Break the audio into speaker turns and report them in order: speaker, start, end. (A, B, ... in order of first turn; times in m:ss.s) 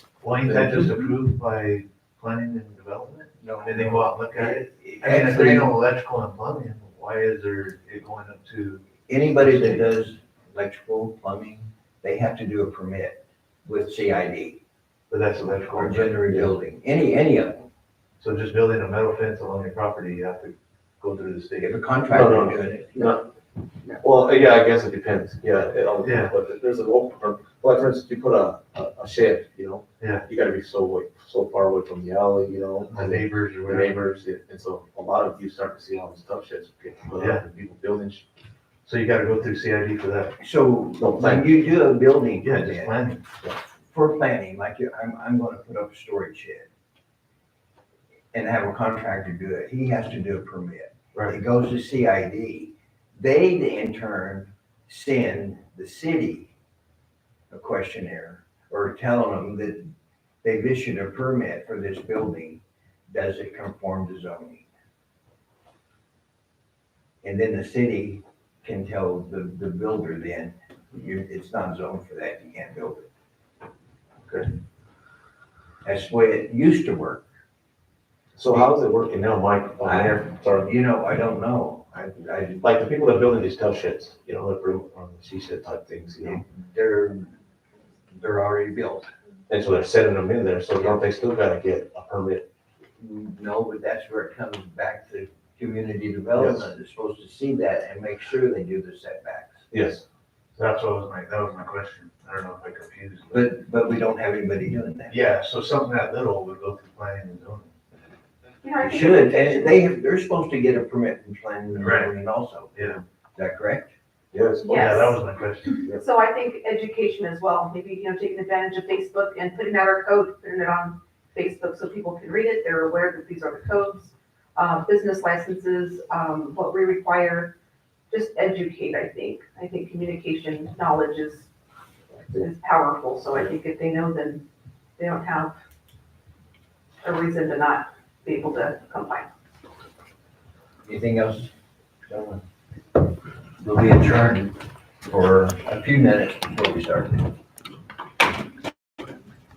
0:00.2-0:09.9 A
0:00.4-0:01.1 B
0:03.4-0:05.7 C
0:09.1-0:14.6 C
0:15.1-0:16.2 A
0:15.7-0:17.7 C
0:18.2-0:21.8 A
0:21.6-0:23.2 C
0:22.1-0:23.3 B
0:24.0-0:38.2 B
0:26.0-0:26.4 A
0:30.0-0:30.3 A
0:32.9-0:34.0 A
0:37.1-0:37.4 A
0:38.8-0:40.4 A
0:40.4-0:43.0 C
0:41.0-0:41.4 B
0:42.4-0:43.2 A
0:43.9-0:46.7 C
0:48.3-0:56.5 C
0:51.1-0:51.4 A
0:57.5-0:59.9 C
1:00.4-1:04.7 C
1:07.2-1:13.1 C
1:15.8-1:17.2 C
1:18.3-1:20.7 B
1:19.8-1:22.6 C
1:22.6-1:26.4 B
1:26.2-1:27.4 C
1:28.1-1:29.1 C
1:29.5-1:32.4 B
1:33.0-1:39.6 C
1:36.3-1:36.7 B
1:39.7-1:40.0 B
1:40.6-1:43.5 A
1:43.3-1:45.2 C
1:45.1-1:47.7 A
1:48.6-1:49.8 D
1:48.8-1:53.9 C
1:51.8-1:52.1 A
1:52.7-1:53.0 A
1:54.3-1:55.0 B
1:54.6-1:55.2 D
1:54.6-1:55.8 A
1:55.9-2:07.5 D
2:08.1-2:11.5 D
2:12.1-2:14.4 D
2:15.0-2:15.6 D
2:17.0-2:19.3 D
2:20.8-2:21.5 C
2:22.1-2:22.4 C
2:23.6-2:27.3 C